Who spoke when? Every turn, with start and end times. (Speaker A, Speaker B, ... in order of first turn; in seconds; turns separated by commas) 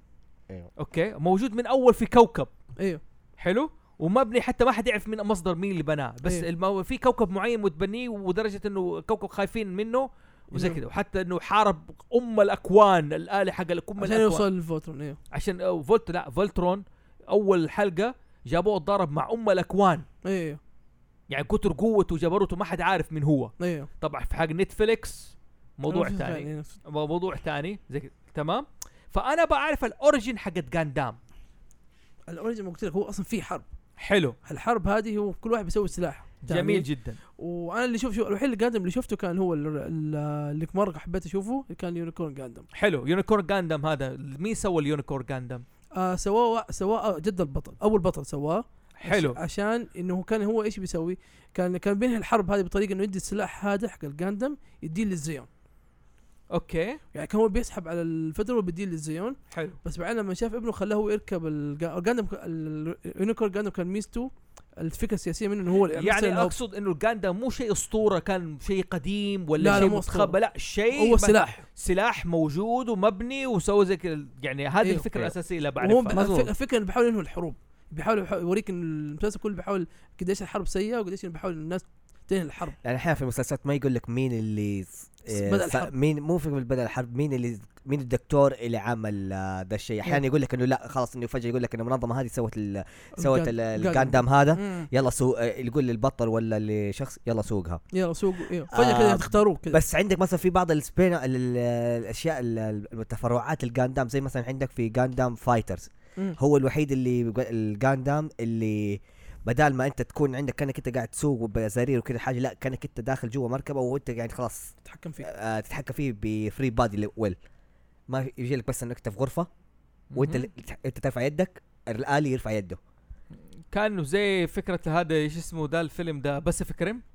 Speaker A: 0.8-2.5, Speaker A: 3.4-14.5, Speaker B: 10.5-10.8, Speaker B: 14.0-15.2, Speaker A: 15.3-20.1, Speaker B: 20.2-20.6, Speaker A: 21.3-31.2, Speaker B: 23.6-23.9, Speaker B: 25.9-26.7, Speaker B: 32.3-33.7, Speaker A: 34.0-34.4, Speaker B: 34.4-36.9, Speaker A: 36.4-37.2, Speaker B: 37.4-42.7, Speaker A: 42.7-45.6, Speaker B: 46.0-55.5, Speaker A: 49.0-49.4, Speaker A: 56.5-57.0, Speaker B: 57.1-66.5, Speaker A: 59.5-59.8, Speaker A: 65.9-76.5, Speaker B: 69.6-70.4, Speaker B: 70.9-71.6, Speaker B: 75.8-82.8, Speaker C: 82.8-97.8, Speaker B: 85.3-85.9, Speaker B: 93.2-94.9, Speaker B: 97.9-99.8, Speaker C: 98.7-117.4, Speaker B: 114.8-115.3, Speaker C: 118.1-119.5, Speaker A: 120.1-120.5, Speaker C: 120.2-122.8, Speaker A: 123.7-127.0